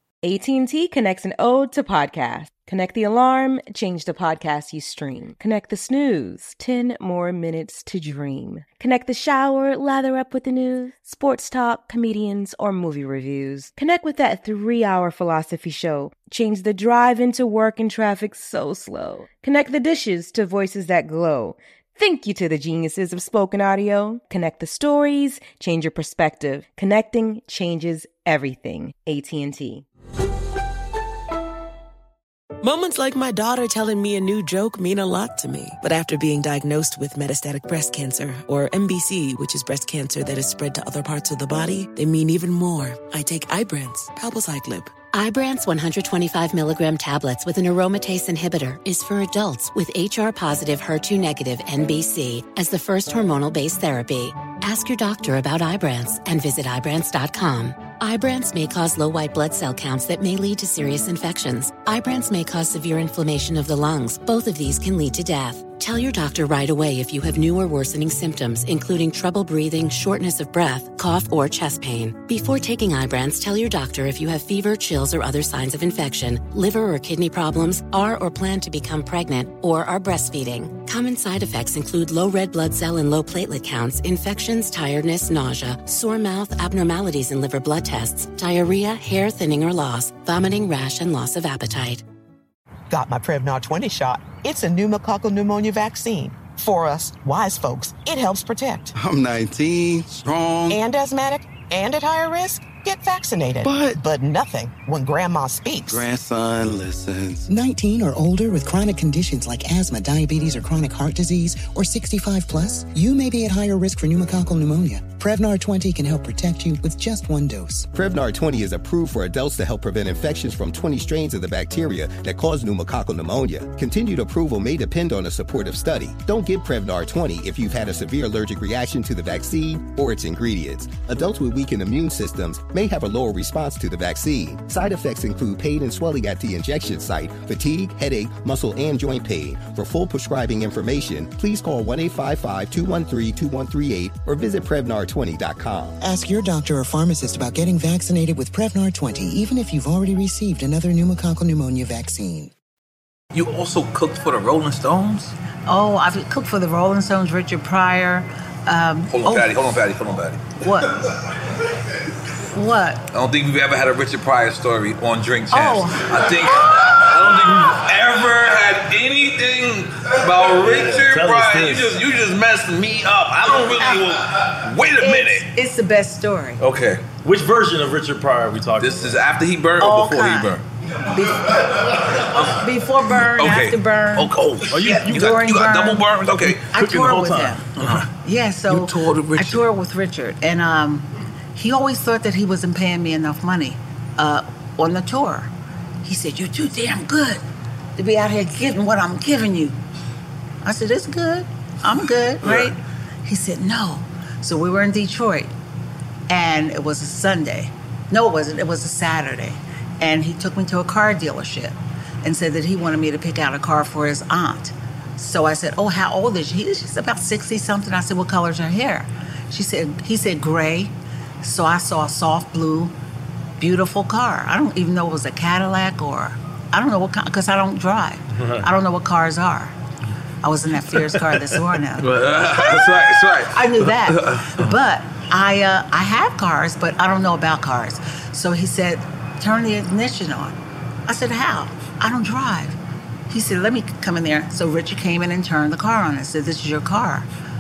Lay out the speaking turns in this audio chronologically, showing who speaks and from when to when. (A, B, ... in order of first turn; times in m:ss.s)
0:00.2-0:29.8 A
0:32.6-0:45.1 B
0:45.1-1:32.0 C
1:32.9-1:38.9 D
1:39.0-1:40.8 E
1:40.7-1:46.0 D
1:43.6-1:44.0 E
1:45.9-1:47.5 E
1:47.5-1:57.9 F
1:57.9-2:26.0 G
2:26.0-2:32.5 F
2:33.3-2:35.4 H
2:35.7-2:39.5 I
2:39.1-2:40.6 H
2:40.6-2:41.0 I
2:42.5-2:43.1 I
2:43.1-2:55.5 H
2:45.5-2:46.3 I
2:50.6-2:52.0 J
2:55.0-2:56.6 I
2:56.6-2:57.1 H
2:57.2-2:59.2 J
2:58.8-3:00.6 H
2:59.8-3:00.6 I
3:01.1-3:01.9 I
3:02.0-3:06.7 H
3:02.5-3:04.3 I
3:04.7-3:05.3 J
3:04.9-3:06.1 I
3:06.5-3:07.6 J
3:06.7-3:07.7 I
3:07.8-3:08.1 H
3:08.2-3:15.5 I
3:08.7-3:09.6 H
3:16.0-3:17.4 I
3:18.0-3:19.8 I
3:20.6-3:25.5 I
3:22.4-3:22.7 H
3:26.3-3:42.9 I
3:43.6-3:49.8 I
3:48.4-3:48.7 J
3:50.4-4:00.6 I
3:52.0-3:54.7 H
4:01.1-4:02.8 I
4:03.3-4:07.3 I